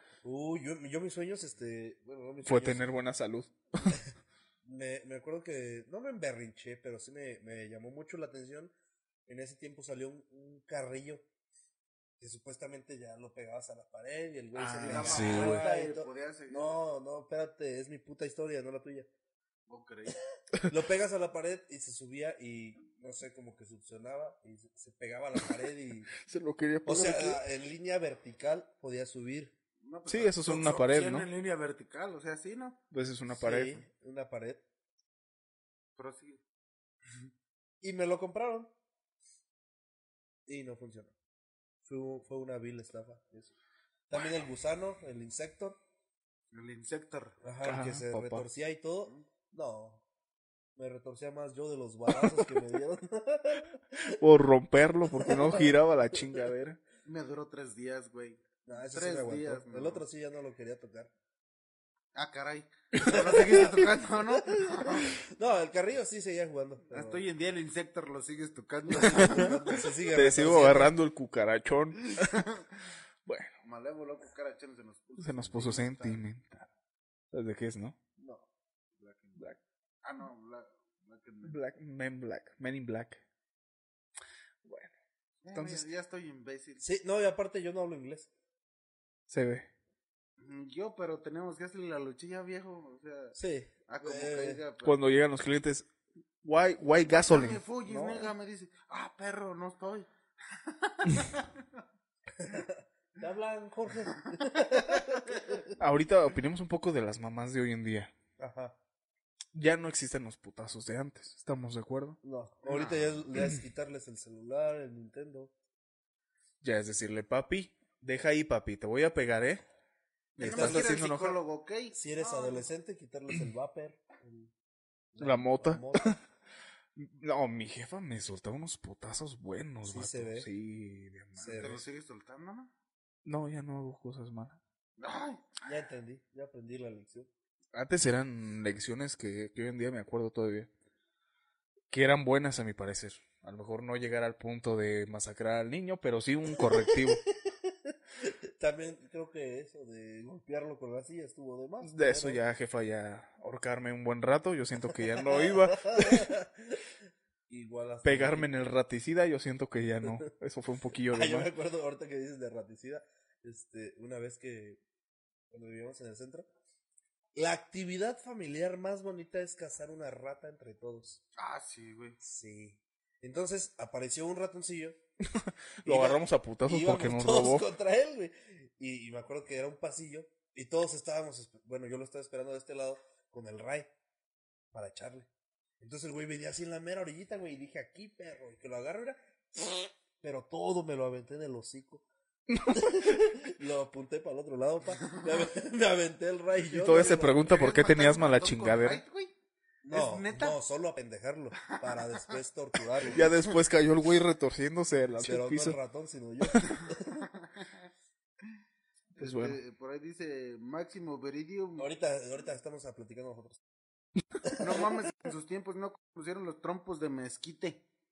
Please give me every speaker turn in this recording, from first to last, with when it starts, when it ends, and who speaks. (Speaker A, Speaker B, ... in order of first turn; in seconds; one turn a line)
Speaker A: 0.2-2.8
Speaker B: 2.4-4.0
Speaker A: 4.6-8.7
Speaker A: 9.3-11.2
Speaker A: 12.2-19.1
Speaker B: 14.6-15.6
Speaker C: 14.6-16.7
Speaker C: 19.7-20.2
Speaker A: 20.7-26.1
Speaker B: 26.2-27.4
Speaker A: 26.8-29.5
Speaker C: 29.8-32.8
Speaker B: 30.1-31.3
Speaker B: 32.9-33.8
Speaker A: 33.3-34.6
Speaker C: 36.0-36.4
Speaker A: 37.8-38.7
Speaker A: 40.5-41.1
Speaker A: 41.8-43.5
Speaker A: 44.1-45.8
Speaker C: 46.5-47.4
Speaker A: 47.4-50.0
Speaker B: 47.6-48.4
Speaker A: 50.8-54.1
Speaker B: 54.0-56.8
Speaker A: 55.1-55.8
Speaker C: 57.0-60.0
Speaker A: 58.6-61.1
Speaker C: 62.1-65.2
Speaker B: 63.0-63.7
Speaker A: 63.0-63.8
Speaker A: 64.5-67.2
Speaker C: 66.9-69.9
Speaker A: 68.9-70.9
Speaker B: 70.1-72.5
Speaker B: 73.2-73.5
Speaker C: 73.6-76.2
Speaker B: 75.2-76.7
Speaker B: 77.3-78.0
Speaker A: 78.2-78.5
Speaker C: 79.0-79.5
Speaker C: 80.0-81.5
Speaker B: 81.4-83.2
Speaker B: 84.6-84.9
Speaker C: 85.4-86.8
Speaker B: 85.5-85.8
Speaker A: 86.8-88.3
Speaker B: 89.3-89.7
Speaker C: 90.4-93.3
Speaker A: 93.3-94.6
Speaker C: 93.9-95.0
Speaker B: 94.8-95.9
Speaker B: 96.4-98.3
Speaker C: 97.1-101.8
Speaker A: 102.4-105.7
Speaker C: 104.4-105.6
Speaker B: 105.8-108.1
Speaker A: 108.4-108.8
Speaker B: 109.5-112.2
Speaker A: 112.2-115.5
Speaker C: 112.7-113.2
Speaker B: 116.6-119.6
Speaker B: 120.3-121.4
Speaker C: 120.4-122.7
Speaker A: 120.4-120.9
Speaker A: 121.9-124.5
Speaker A: 125.1-126.2
Speaker B: 125.2-126.2
Speaker B: 127.0-131.8
Speaker A: 129.8-130.5
Speaker A: 131.4-131.8
Speaker C: 131.4-132.7
Speaker B: 133.2-134.6
Speaker C: 135.0-135.6
Speaker A: 135.6-137.3
Speaker B: 137.7-140.7
Speaker B: 141.9-147.2
Speaker A: 146.6-152.4
Speaker B: 151.8-156.3
Speaker A: 155.2-156.8
Speaker A: 157.5-158.7
Speaker B: 158.0-161.5
Speaker A: 161.1-164.8
Speaker A: 165.5-166.5
Speaker A: 167.3-171.2
Speaker C: 171.4-172.2
Speaker A: 172.2-175.0
Speaker B: 175.2-177.7
Speaker A: 175.8-183.9
Speaker A: 184.7-185.3
Speaker A: 185.8-192.0
Speaker B: 192.5-193.3
Speaker A: 192.7-197.6
Speaker B: 196.7-199.0
Speaker C: 196.9-199.3
Speaker A: 199.8-203.2
Speaker C: 199.9-200.6
Speaker C: 201.7-202.3
Speaker C: 203.0-203.4
Speaker B: 203.1-205.8
Speaker A: 205.2-207.3
Speaker C: 207.2-207.9
Speaker B: 209.2-209.6
Speaker C: 209.2-211.9
Speaker A: 211.8-213.6
Speaker A: 214.4-214.8
Speaker C: 214.6-217.8